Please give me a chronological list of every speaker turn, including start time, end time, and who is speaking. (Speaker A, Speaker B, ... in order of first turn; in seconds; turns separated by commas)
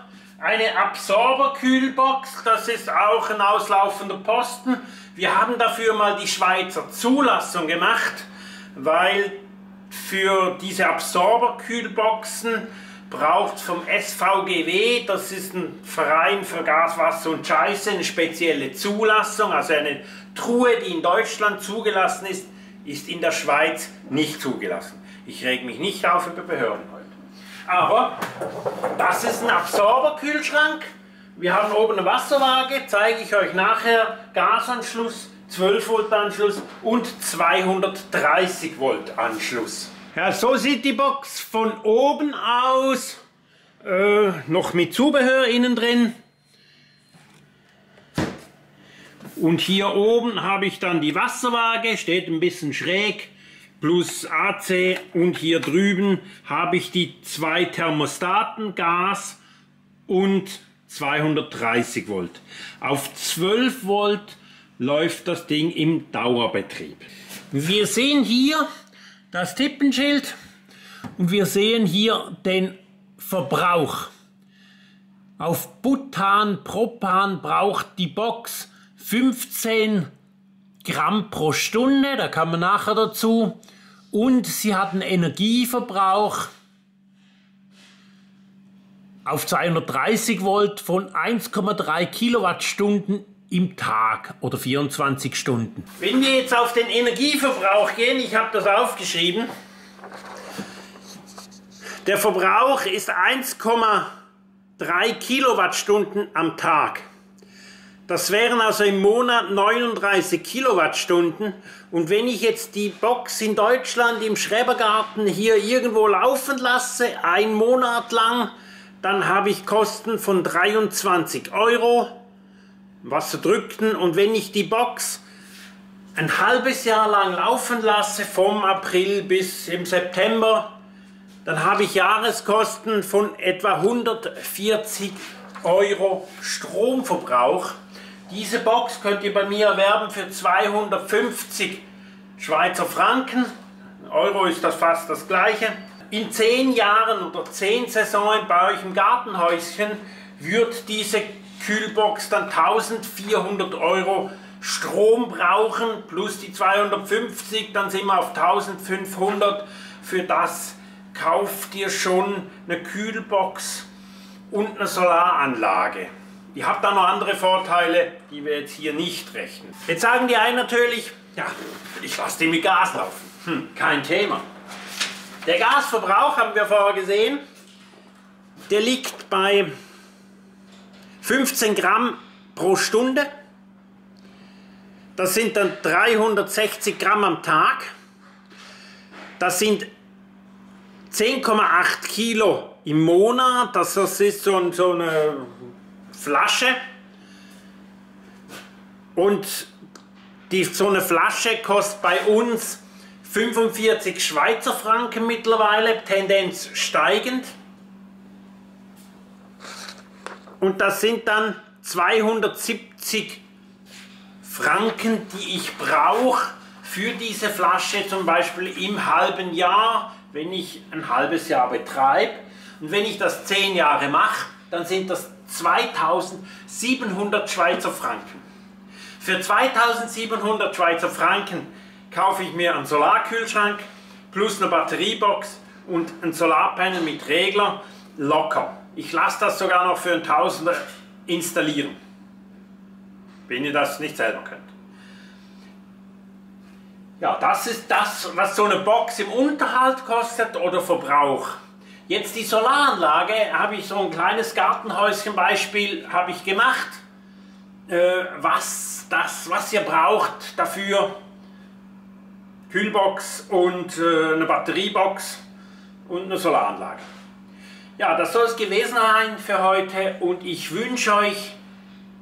Speaker A: 0.4-9.4, Speaker A: 9.9-27.1, Speaker A: 27.6-28.2, Speaker A: 28.9-43.2, Speaker A: 43.8-46.1, Speaker A: 49.4-59.4, Speaker A: 60.1-68.6, Speaker A: 69.3-70.3, Speaker A: 71.2-74.1, Speaker A: 75.4-80.1, Speaker A: 80.8-83.6, Speaker A: 84.1-86.5, Speaker A: 89.2-99.5, Speaker A: 102.0-104.1, Speaker A: 104.8-107.0, Speaker A: 108.1-118.5, Speaker A: 119.0-122.2, Speaker A: 123.0-125.2, Speaker A: 126.1-130.7, Speaker A: 131.4-137.7, Speaker A: 138.3-141.8, Speaker A: 142.4-163.9, Speaker A: 164.5-174.4, Speaker A: 175.4-177.4, Speaker A: 178.7-179.7, Speaker A: 181.2-183.3, Speaker A: 185.2-187.9, Speaker A: 189.4-189.9, Speaker A: 191.1-195.5, Speaker A: 196.1-196.8, Speaker A: 199.1-199.7, Speaker A: 200.5-207.5, Speaker A: 210.6-213.4, Speaker A: 214.4-228.4, Speaker A: 229.2-242.0, Speaker A: 243.5-244.7, Speaker A: 247.2-251.6, Speaker A: 252.1-257.0, Speaker A: 257.9-261.1, Speaker A: 262.7-265.4, Speaker A: 266.1-267.0, Speaker A: 268.0-271.6